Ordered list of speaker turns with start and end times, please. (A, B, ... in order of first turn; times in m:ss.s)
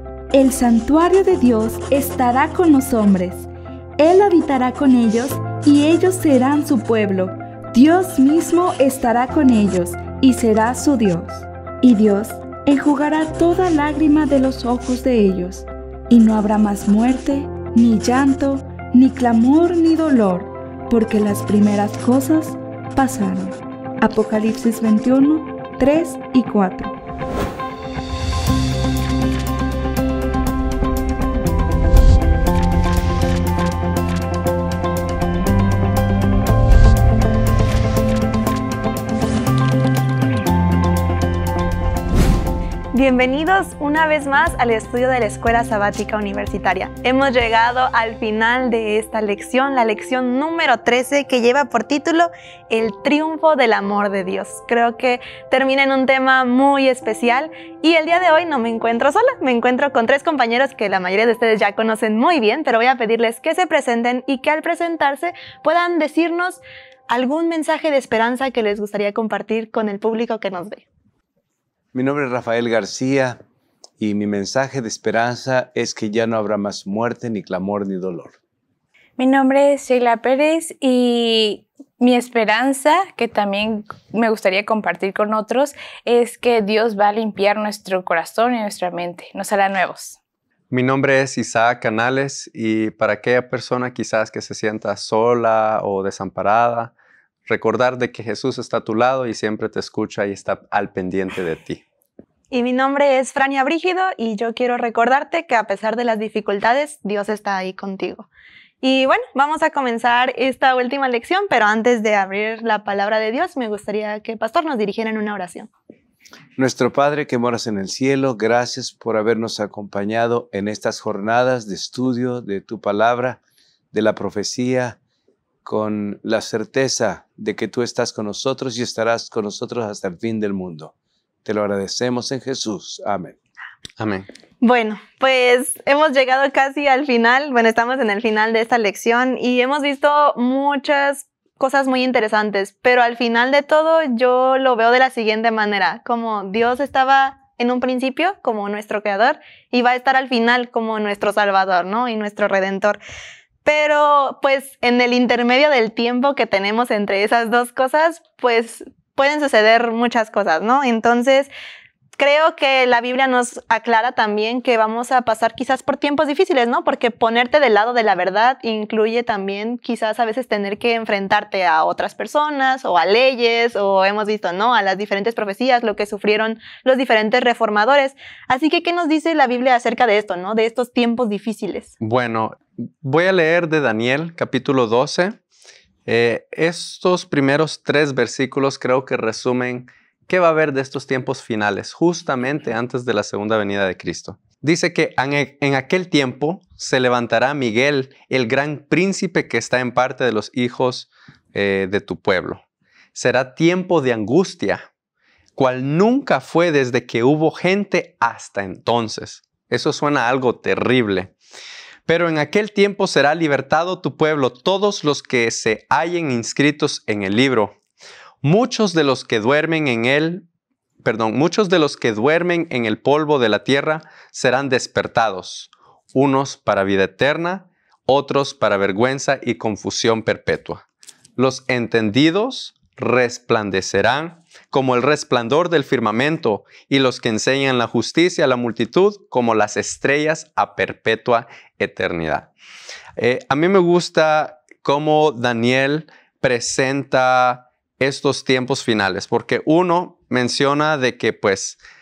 0:00.3-0:26.9 A
0:42.9-1:10.8 B
1:11.9-1:13.4 C
1:14.0-1:18.4 C
1:19.2-1:30.2 D
1:30.7-1:36.9 E
1:37.5-1:41.8 E
1:42.5-1:48.3 B
1:48.8-1:55.7 B
1:56.6-2:03.4 C
2:03.9-2:05.0 C
2:05.6-2:10.9 C
2:11.4-2:13.3 C
2:14.0-2:14.3 E
2:14.6-2:33.0 B
2:33.6-2:41.5 B
2:42.2-3:01.9 B
3:02.0-3:05.4 E
3:06.0-3:22.6 E
3:23.1-3:24.8 E
3:25.6-3:31.3 E
3:32.1-3:37.8 E
3:38.4-3:40.4 E
3:41.0-3:50.8 E
3:51.4-4:02.5 E
4:03.2-4:11.8 E